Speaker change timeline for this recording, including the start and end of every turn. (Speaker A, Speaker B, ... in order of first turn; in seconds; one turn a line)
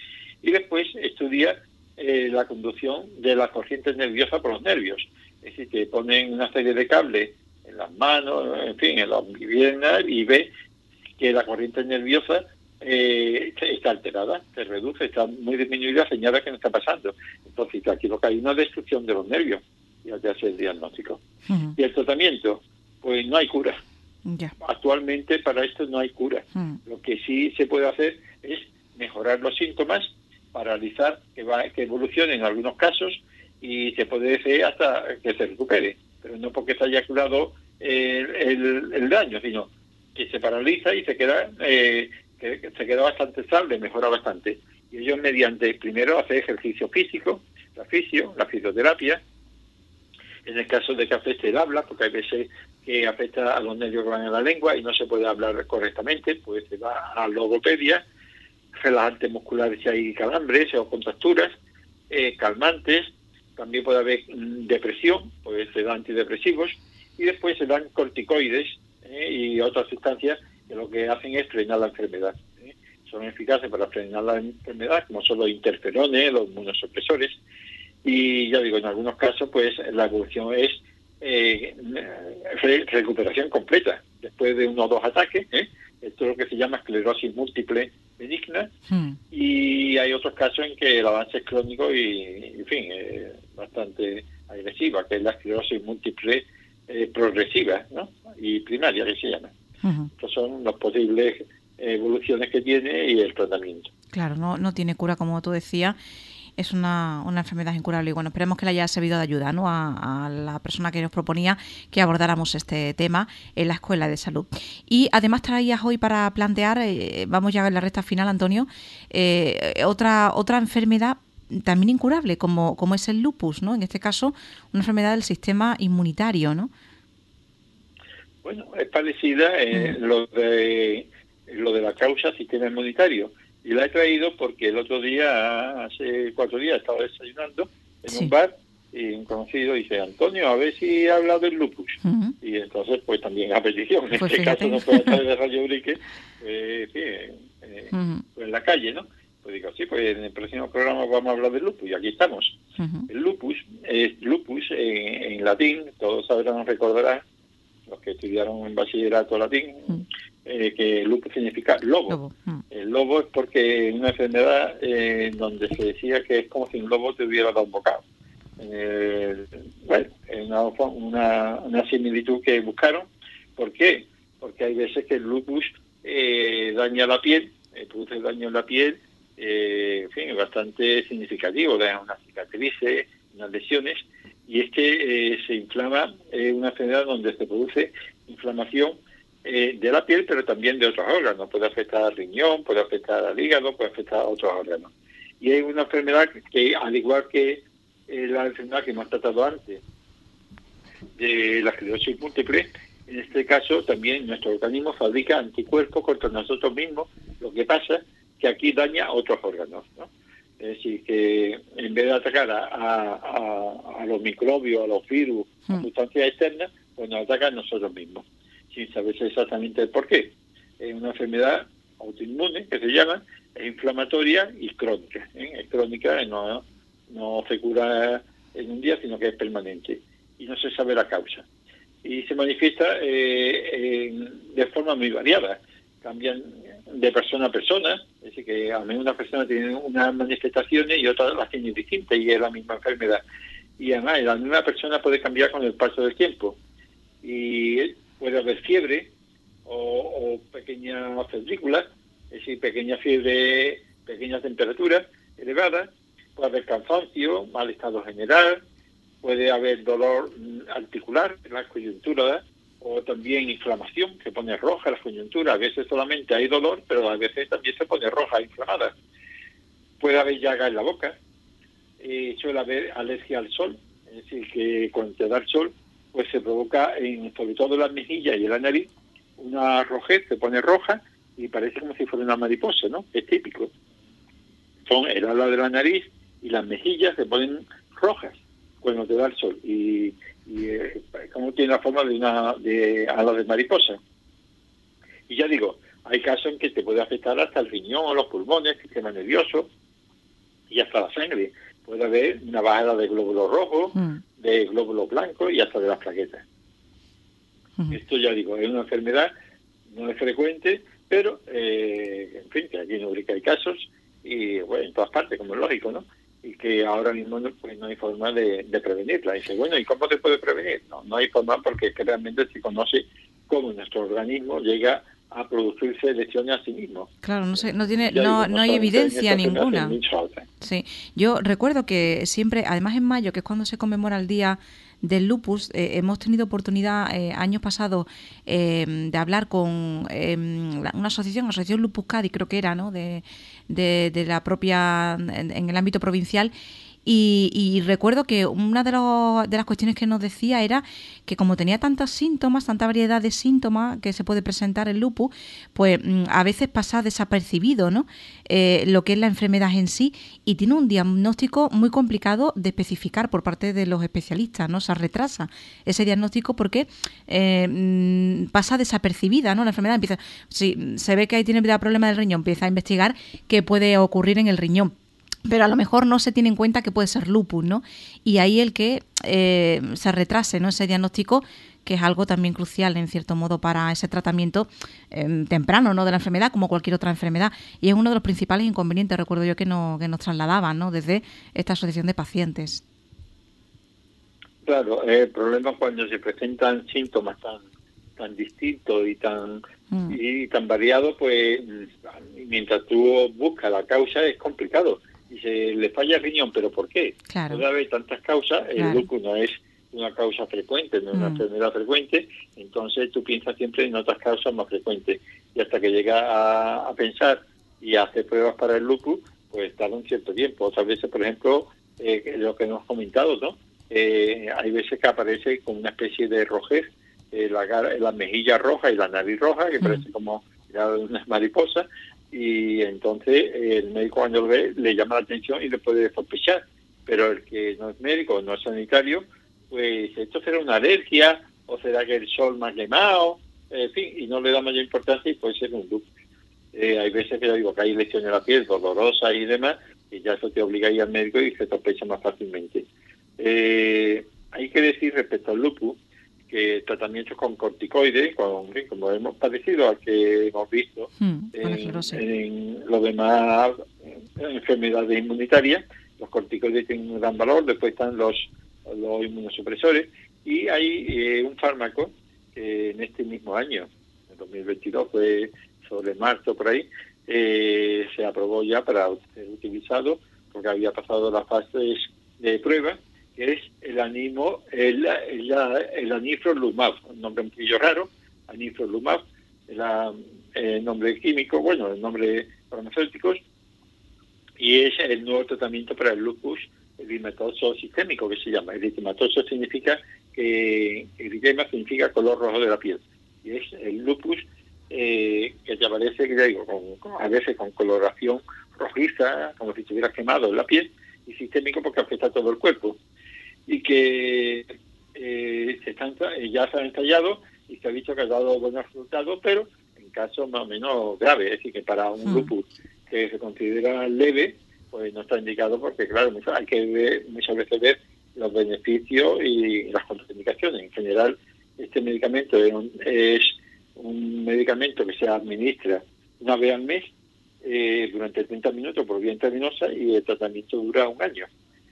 Speaker A: 0.4-10.5
Speaker A: 11.2-21.2
Speaker B: 21.5-21.8
Speaker A: 21.8-23.8
Speaker B: 24.2-24.5
Speaker A: 24.6-49.2
Speaker A: 50.4-58.0
Speaker A: 58.7-61.5
Speaker A: 62.1-77.4
Speaker A: 78.0-88.7
Speaker B: 88.9-89.2
Speaker A: 89.3-99.5
Speaker B: 99.8-100.1
Speaker A: 100.2-103.9
Speaker B: 104.1-106.0
Speaker B: 106.6-126.7
Speaker A: 128.4-157.2
Speaker B: 142.0-142.3
Speaker B: 144.2-145.2
Speaker B: 147.9-148.2
Speaker B: 152.8-153.1
Speaker A: 157.9-162.2
Speaker B: 162.1-162.6
Speaker A: 162.7-168.0
Speaker A: 168.6-199.8
Speaker A: 201.2-231.4
Speaker A: 232.0-243.2
Speaker A: 243.8-246.6
Speaker A: 247.2-249.1
Speaker A: 249.7-258.6
Speaker A: 259.2-268.9
Speaker A: 270.0-271.2
Speaker A: 272.0-283.7
Speaker A: 284.9-294.0
Speaker A: 295.3-299.7
Speaker A: 300.7-306.4
Speaker A: 307.9-309.3
Speaker A: 309.9-327.1
Speaker B: 327.2-330.0
Speaker A: 328.0-330.5
Speaker B: 330.6-346.5
Speaker B: 347.1-374.9
Speaker B: 375.5-392.8
Speaker A: 394.6-397.6
Speaker A: 398.2-446.1
Speaker B: 399.9-400.2
Speaker B: 407.3-407.6
Speaker B: 408.8-409.1
Speaker B: 411.1-411.4
Speaker A: 446.7-452.8
Speaker A: 453.4-456.0
Speaker A: 456.5-493.4
Speaker B: 461.2-462.2
Speaker A: 494.6-513.0
Speaker A: 513.7-537.1
Speaker B: 522.2-522.5
Speaker A: 537.6-541.5